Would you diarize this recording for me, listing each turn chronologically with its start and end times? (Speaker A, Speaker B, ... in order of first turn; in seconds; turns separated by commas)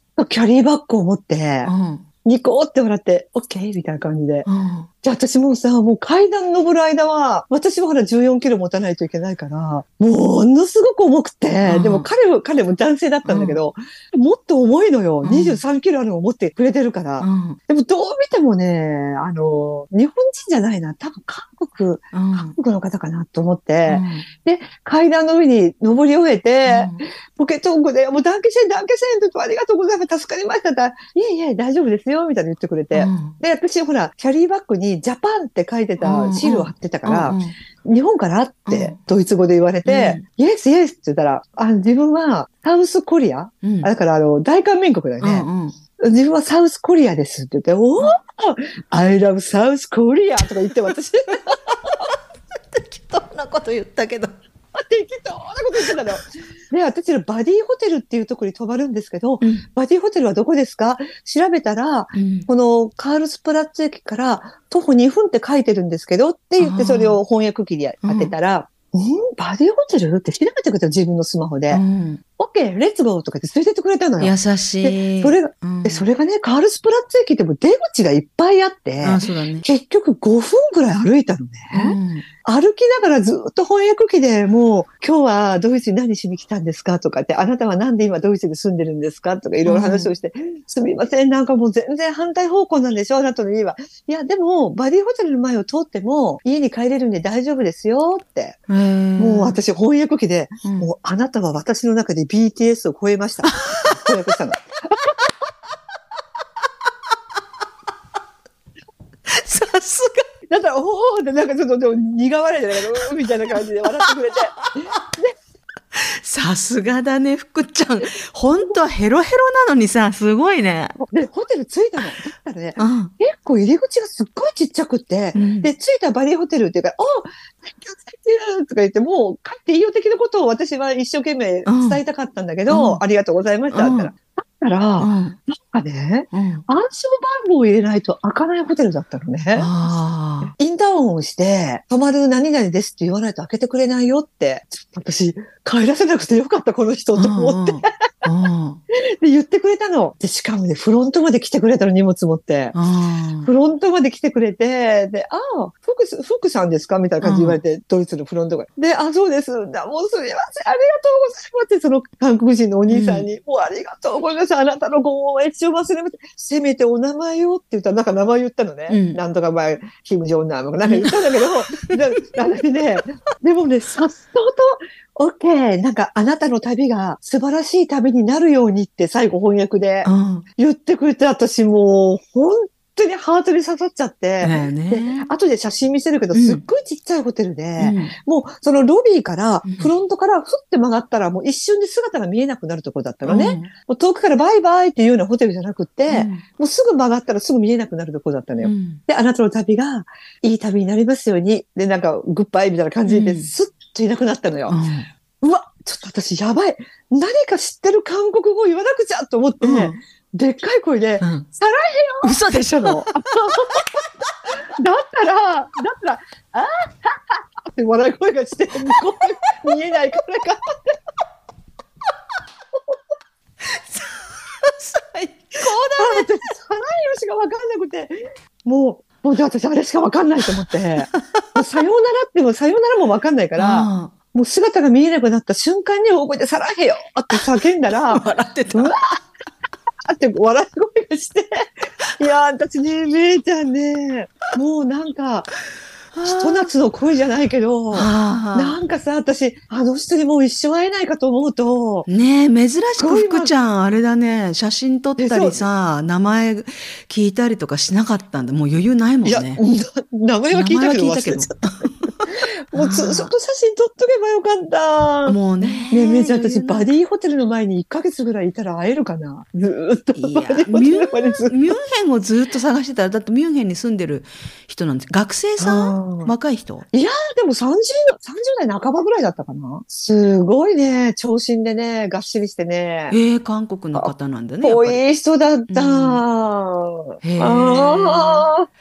Speaker A: 0.1-1.7, Speaker B: 1.6-2.0, Speaker A: 2.2-4.5, Speaker B: 4.5-4.9, Speaker A: 5.0-52.1, Speaker B: 11.7-12.1, Speaker B: 13.2-13.6, Speaker B: 15.2-15.6, Speaker B: 17.2-17.6, Speaker B: 22.1-22.6, Speaker B: 23.9-24.3, Speaker B: 26.7-27.0, Speaker B: 32.9-33.4, Speaker B: 36.0-37.6, Speaker B: 38.7-39.0, Speaker B: 39.9-40.2, Speaker B: 43.6-43.9, Speaker B: 45.2-45.8, Speaker B: 50.4-50.9, Speaker B: 52.7-54.3, Speaker A: 54.7-71.8, Speaker B: 55.8-56.2, Speaker B: 62.1-62.5, Speaker B: 66.6-67.2, Speaker B: 68.0-68.3, Speaker B: 71.7-72.2, Speaker A: 72.4-98.6, Speaker B: 74.2-76.0, Speaker B: 79.0-79.7, Speaker B: 81.7-82.3, Speaker B: 89.7-90.1, Speaker B: 98.7-99.6, Speaker A: 99.2-105.0, Speaker B: 100.6-100.9, Speaker B: 103.5-104.2, Speaker B: 109.3-110.2, Speaker A: 110.5-115.3, Speaker B: 115.9-121.0, Speaker A: 121.0-139.7, Speaker B: 122.8-123.1, Speaker B: 125.3-125.7, Speaker B: 131.7-132.0, Speaker B: 132.7-133.0, Speaker B: 133.7-134.1, Speaker B: 135.0-135.4, Speaker B: 136.3-136.6, Speaker B: 139.6-140.5, Speaker A: 140.4-148.1, Speaker B: 147.2-148.8, Speaker A: 148.9-152.8, Speaker B: 152.7-153.5, Speaker A: 153.4-204.8, Speaker B: 157.2-157.6, Speaker B: 162.9-163.3, Speaker B: 168.9-169.2, Speaker B: 170.9-171.2, Speaker B: 180.0-180.4, Speaker B: 184.4-185.3, Speaker B: 186.3-186.6, Speaker B: 187.8-188.2, Speaker B: 189.6-189.9, Speaker B: 193.2-193.7, Speaker B: 196.1-196.4, Speaker B: 198.6-199.0, Speaker B: 203.1-203.5, Speaker B: 204.7-205.1, Speaker A: 205.4-213.9, Speaker B: 209.6-210.0, Speaker B: 211.2-211.5, Speaker B: 212.2-213.2, Speaker A: 214.8-220.9, Speaker B: 223.6-226.3, Speaker A: 225.6-239.2, Speaker B: 231.0-231.6, Speaker B: 233.6-234.1, Speaker B: 238.1-238.9, Speaker A: 240.1-245.5, Speaker B: 246.1-246.7, Speaker A: 246.2-252.1, Speaker B: 247.9-248.8, Speaker B: 252.1-259.6, Speaker A: 253.0-253.5, Speaker A: 255.2-255.7, Speaker A: 259.2-261.5, Speaker B: 260.5-263.3, Speaker A: 262.3-271.6, Speaker B: 265.3-266.9, Speaker B: 270.2-276.9, Speaker A: 275.6-276.3, Speaker A: 276.9-283.2, Speaker B: 283.1-285.0, Speaker A: 283.9-288.7, Speaker B: 285.7-286.2, Speaker B: 287.2-288.5